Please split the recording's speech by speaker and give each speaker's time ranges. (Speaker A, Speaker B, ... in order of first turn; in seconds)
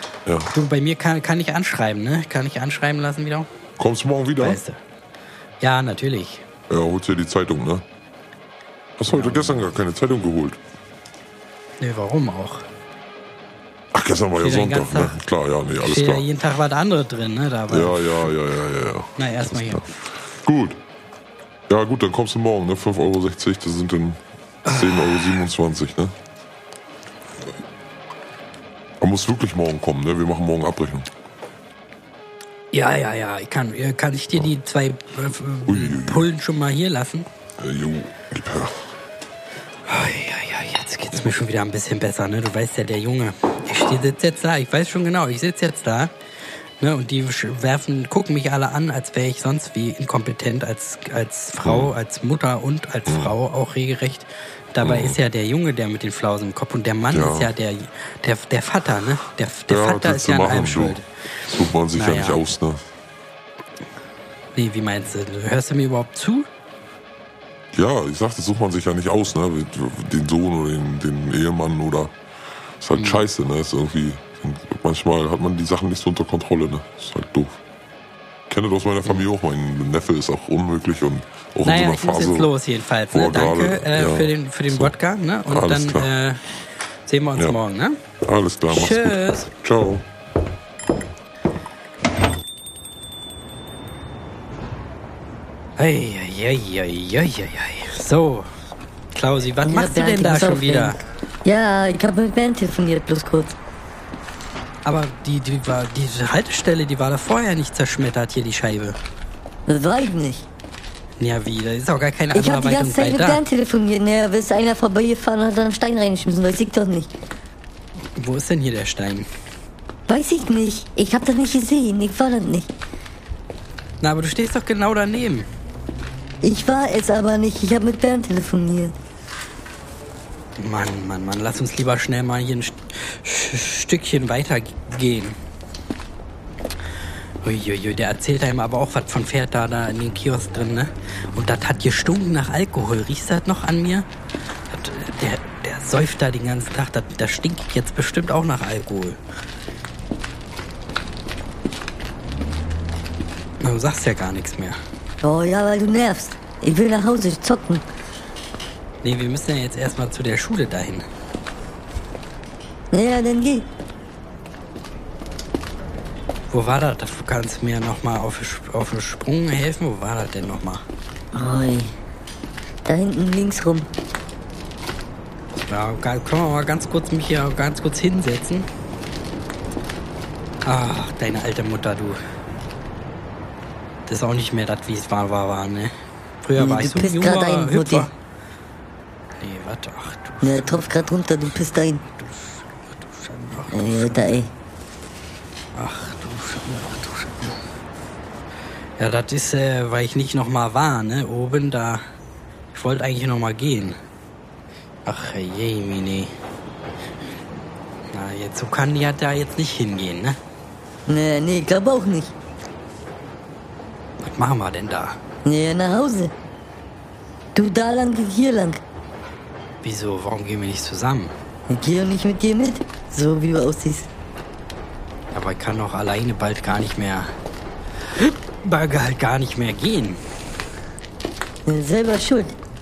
Speaker A: 0.3-0.5, 3.8-4.6, 6.7-7.8, 9.0-10.6, 13.9-16.3, 17.7-19.8, 20.4-20.8, 21.7-26.1, 29.0-31.1, 35.7-36.3, 37.6-38.7, 53.1-53.3, 54.8-55.2, 57.1-57.5, 59.7-62.8, 67.7-72.1, 72.8-77.6, 78.5-82.5, 83.1-84.9, 85.5-86.1, 88.2-90.0
Speaker B: 0.5-3.5, 4.4-4.8, 5.6-6.5, 9.1-9.7, 11.8-12.7, 14.4-15.2, 15.8-18.4, 19.2-19.9, 24.6-25.5, 32.7-37.3, 39.9-46.1, 46.8-61.1, 61.9-62.5, 64.5-66.5, 73.0-73.2, 81.6-86.4, 87.1-88.0, 88.7-89.5, 95.8-98.5, 99.1-101.0, 104.8-109.0, 111.2-113.4, 118.2-119.3, 124.0-125.5, 130.6-135.4, 137.4-144.1, 144.7-149.2, 153.6-154.8, 159.0-161.1, 166.5-170.8, 175.5-178.7, 180.7-182.2, 184.1-188.1, 189.4-190.8, 192.2-194.4, 195.8-197.6, 199.0-202.0, 202.7-204.0, 205.1-206.3, 208.1-210.4, 214.2-215.2, 219.8-221.3, 225.3-227.3, 228.2-230.2
Speaker C: 99.6-103.5, 109.7-110.5, 112.3-117.1, 120.1-122.7, 126.4-128.9, 155.2-157.9, 162.9-163.7, 171.3-171.9, 172.8-173.9, 186.6-188.1, 190.4-192.1, 193.7-194.5, 211.1-212.3, 215.4-216.3, 217.6-218.8, 221.7-224.1, 231.7-232.6